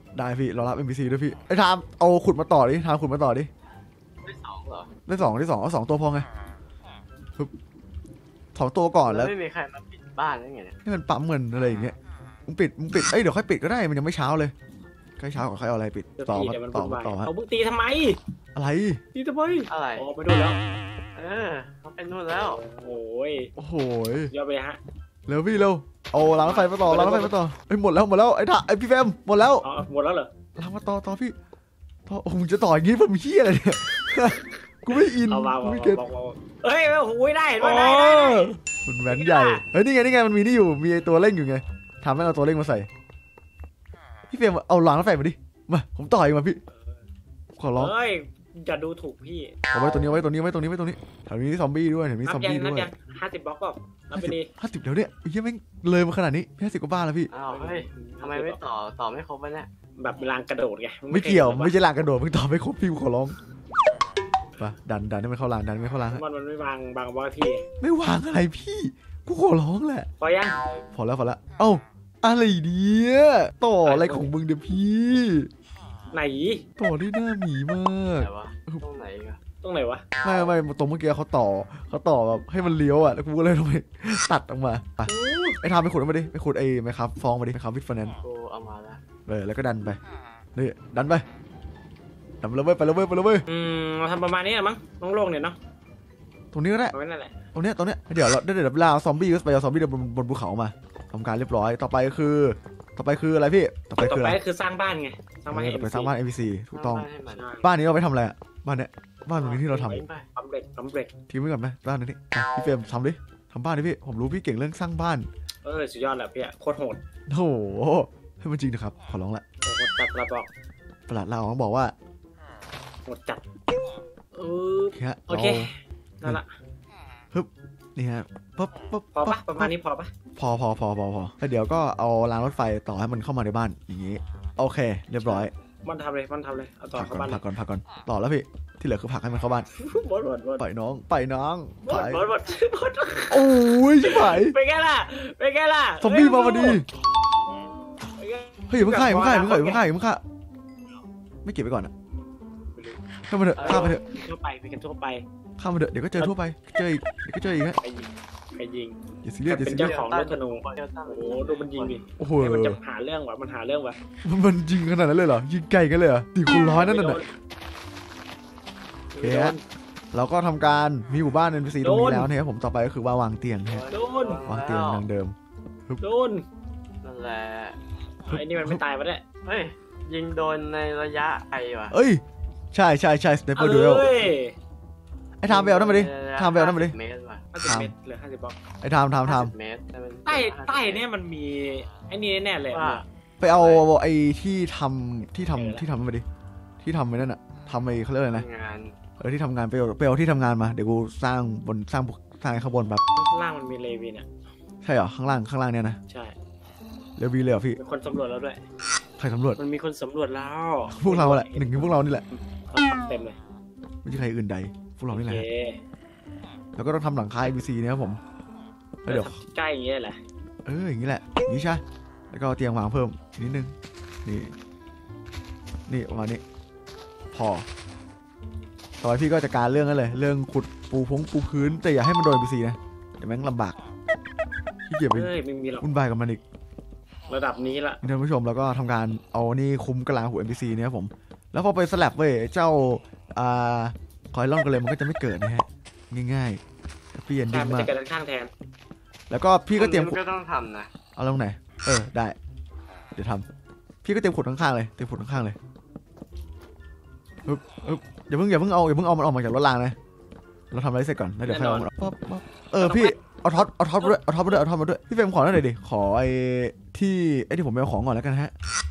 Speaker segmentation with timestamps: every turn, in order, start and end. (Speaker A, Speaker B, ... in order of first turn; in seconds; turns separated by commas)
Speaker A: 0.1-3.5, Speaker B: 4.2-4.9, Speaker A: 5.0-6.2, Speaker A: 8.5-9.3, Speaker B: 9.1-10.8, Speaker A: 10.8-11.9, Speaker A: 12.5-14.5, Speaker A: 15.2-17.3, Speaker C: 16.2-18.2, Speaker A: 18.5-19.0, Speaker C: 19.1-20.6, Speaker B: 19.7-20.1, Speaker B: 21.1-22.6, Speaker C: 22.3-23.5, Speaker A: 23.6-24.3, Speaker C: 24.3-24.8, Speaker A: 25.3-29.6, Speaker C: 26.3-27.3, Speaker C: 29.6-30.3, Speaker A: 30.6-31.4, Speaker A: 32.1-36.0, Speaker C: 34.1-38.5, Speaker A: 37.6-42.9, Speaker C: 39.1-39.6, Speaker A: 44.3-46.6, Speaker C: 46.7-47.0, Speaker A: 47.6-47.9, Speaker C: 47.8-49.5, Speaker A: 49.7-52.9, Speaker C: 52.2-54.5, Speaker A: 54.1-57.3, Speaker B: 57.3-59.7, Speaker C: 57.5-58.6, Speaker C: 60.0-61.7, Speaker A: 61.1-63.3, Speaker A: 64.6-66.2, Speaker C: 66.1-67.7, Speaker A: 67.8-70.1, Speaker C: 70.2-70.6, Speaker A: 70.9-75.5, Speaker C: 73.8-74.3, Speaker C: 76.1-76.6, Speaker A: 76.8-78.8, Speaker B: 78.2-79.4, Speaker C: 79.6-80.0, Speaker A: 80.2-88.2, Speaker C: 85.1-85.6, Speaker B: 88.2-89.0, Speaker A: 89.3-90.0, Speaker A: 90.5-91.2, Speaker A: 92.4-93.4, Speaker C: 93.5-95.5, Speaker A: 96.5-96.9, Speaker C: 96.9-97.3, Speaker A: 97.5-104.4, Speaker C: 104.0-106.1, Speaker A: 105.5-107.1, Speaker B: 106.7-107.4, Speaker C: 107.3-107.7, Speaker A: 107.6-110.0, Speaker B: 109.3-110.2, Speaker C: 110.3-111.1, Speaker A: 111.3-115.3, Speaker C: 115.6-117.0, Speaker A: 117.3-119.4, Speaker C: 119.6-120.5, Speaker A: 121.1-121.9, Speaker C: 123.0-123.4, Speaker C: 124.3-125.7, Speaker A: 124.9-125.7, Speaker C: 126.2-126.5, Speaker A: 127.3-129.7, Speaker C: 129.1-130.1, Speaker A: 130.3-135.5, Speaker C: 135.2-137.4, Speaker A: 136.9-139.7, Speaker C: 139.7-140.6, Speaker A: 140.6-142.2, Speaker C: 141.8-146.8, Speaker A: 143.3-144.5, Speaker A: 146.0-146.8, Speaker C: 148.2-149.8, Speaker A: 148.7-150.2, Speaker A: 151.4-151.9, Speaker C: 152.7-153.0, Speaker A: 153.3-154.0, Speaker B: 153.6-154.0, Speaker C: 153.6-155.2, Speaker A: 155.6-157.8, Speaker C: 157.8-164.0, Speaker A: 159.2-160.0, Speaker B: 159.7-162.1, Speaker A: 162.2-162.8, Speaker A: 164.2-167.2, Speaker C: 166.6-167.3, Speaker C: 169.1-169.6, Speaker A: 169.2-169.6, Speaker A: 170.1-173.9, Speaker C: 171.8-172.3, Speaker B: 173.7-175.1, Speaker C: 173.9-174.4, Speaker A: 174.4-175.3, Speaker C: 176.0-176.4, Speaker B: 177.0-177.8, Speaker A: 178.3-178.8, Speaker C: 178.3-179.2, Speaker B: 179.4-181.9, Speaker A: 181.9-184.2, Speaker C: 183.5-184.5, Speaker A: 185.4-186.9, Speaker B: 185.5-187.4, Speaker C: 187.5-188.6, Speaker A: 187.6-187.9, Speaker A: 188.8-189.5, Speaker B: 189.2-191.1, Speaker C: 190.2-193.1, Speaker B: 192.7-193.8, Speaker A: 193.4-196.2, Speaker C: 195.5-195.8, Speaker A: 196.8-198.4, Speaker B: 198.3-198.9, Speaker A: 199.2-203.0, Speaker C: 203.1-204.2, Speaker A: 204.8-206.0, Speaker C: 206.1-206.3, Speaker A: 207.2-207.8, Speaker C: 207.8-208.6, Speaker A: 209.2-209.6, Speaker C: 209.6-213.4, Speaker A: 210.9-212.2, Speaker A: 214.0-215.4, Speaker C: 215.1-215.8, Speaker A: 216.8-218.2, Speaker A: 219.0-219.3, Speaker C: 219.1-220.2, Speaker A: 220.6-223.7, Speaker A: 224.2-224.5, Speaker A: 225.9-226.4, Speaker A: 227.3-227.7, Speaker A: 229.0-233.8, Speaker A: 234.8-236.4, Speaker C: 235.1-235.9, Speaker C: 237.3-238.0, Speaker A: 238.0-246.6, Speaker A: 247.1-247.9, Speaker C: 247.5-248.5, Speaker A: 249.3-250.2, Speaker B: 249.7-250.9, Speaker A: 251.2-252.3, Speaker A: 253.2-253.4, Speaker A: 254.0-255.6, Speaker A: 257.4-259.9, Speaker A: 260.7-268.5, Speaker C: 261.4-261.9, Speaker C: 262.8-263.1, Speaker C: 264.0-264.6